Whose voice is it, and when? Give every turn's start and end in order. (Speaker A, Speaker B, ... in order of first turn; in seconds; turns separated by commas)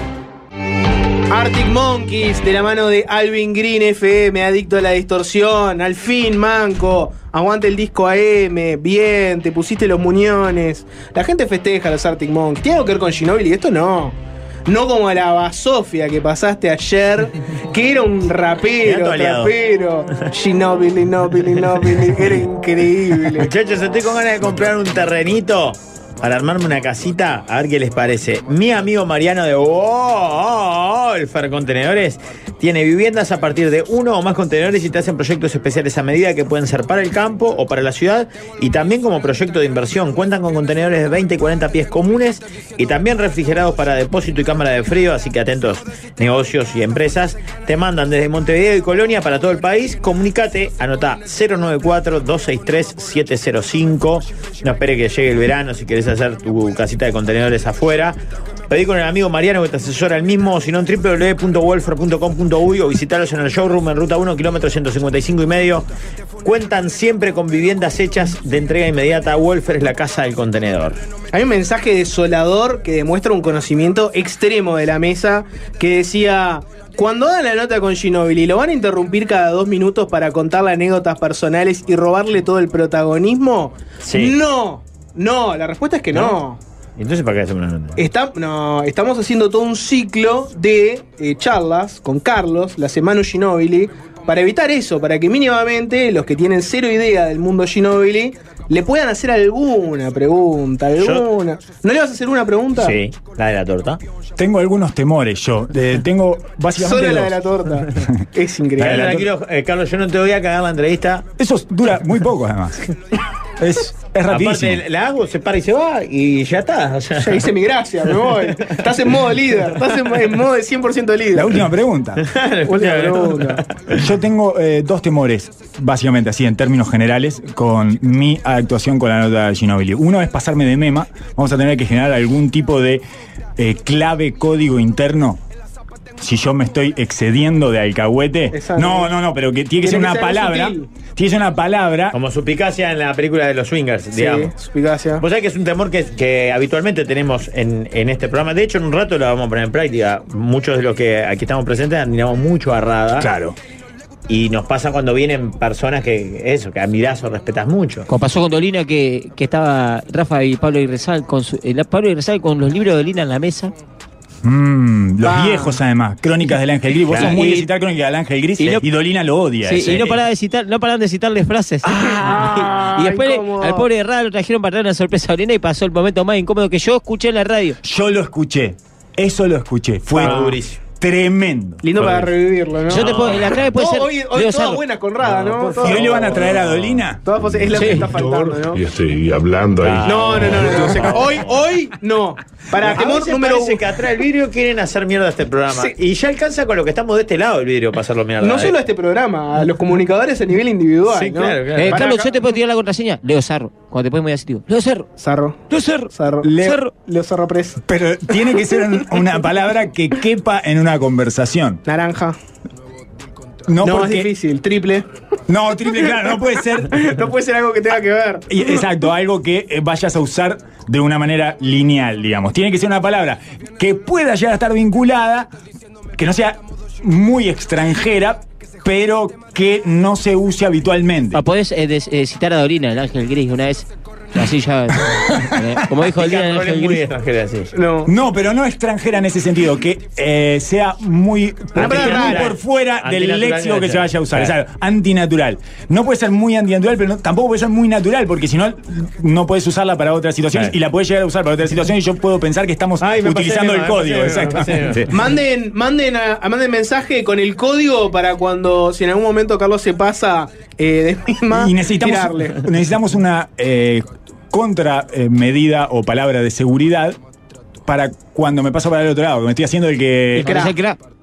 Speaker A: 1.3-23.5, Speaker B: 18.8-19.5, Speaker B: 23.4-58.2, Speaker B: 58.7-65.9, Speaker B: 66.4-71.0, Speaker A: 71.3-86.6, Speaker B: 84.0-84.4, Speaker B: 86.1-86.4, Speaker B: 87.0-88.0, Speaker A: 88.0-103.0, Speaker B: 101.0-101.3, Speaker B: 102.8-104.0, Speaker C: 104.4-107.4, Speaker A: 106.8-109.3, Speaker B: 108.8-111.3, Speaker C: 108.8-109.1, Speaker C: 111.4-112.8, Speaker C: 113.6-114.8, Speaker B: 114.3-117.5, Speaker A: 117.2-121.6, Speaker C: 121.3-122.3, Speaker B: 122.2-124.0, Speaker A: 122.7-123.6, Speaker C: 123.9-133.0, Speaker C: 133.6-135.4, Speaker C: 136.2-142.2, Speaker A: 138.5-139.1, Speaker A: 139.8-140.9, Speaker B: 142.1-144.5, Speaker A: 144.1-145.2, Speaker B: 145.2-153.3, Speaker C: 153.2-153.6, Speaker B: 154.3-158.1, Speaker D: 158.1-163.7, Speaker C: 164.4-170.2, Speaker A: 165.2-165.8, Speaker B: 167.1-167.4, Speaker D: 167.1-167.7, Speaker D: 169.6-177.8, Speaker A: 171.8-173.9, Speaker C: 177.8-182.2, Speaker B: 180.2-180.8, Speaker A: 180.2-180.5, Speaker A: 181.8-186.6, Speaker B: 182.0-182.3, Speaker B: 182.9-183.5, Speaker D: 182.9-184.8, Speaker B: 185.2-187.0, Speaker C: 185.8-187.2, Speaker A: 187.2-188.8, Speaker E: 187.3-190.7, Speaker D: 187.8-188.0, Speaker B: 189.8-191.6, Speaker A: 190.0-193.8, Speaker B: 192.8-198.8, Speaker A: 198.4-202.4, Speaker B: 201.1-202.1, Speaker D: 201.8-205.1, Speaker A: 205.2-207.8, Speaker D: 205.7-206.9, Speaker C: 206.4-206.8, Speaker C: 207.9-211.8, Speaker A: 211.9-212.4, Speaker C: 213.7-214.3, Speaker A: 213.8-215.1, Speaker C: 215.5-217.1, Speaker A: 216.9-218.7, Speaker C: 218.5-225.5, Speaker C: 226.2-231.4, Speaker D: 231.3-237.0, Speaker C: 235.1-235.4, Speaker B: 236.0-237.7, Speaker A: 237.7-238.1, Speaker C: 238.1-255.1, Speaker B: 241.7-244.6, Speaker A: 241.8-242.5, Speaker B: 253.0-255.1, Speaker A: 255.1-262.6, Speaker C: 261.5-267.2, Speaker C: 267.9-270.6, Speaker D: 270.4-271.0, Speaker A: 270.4-270.7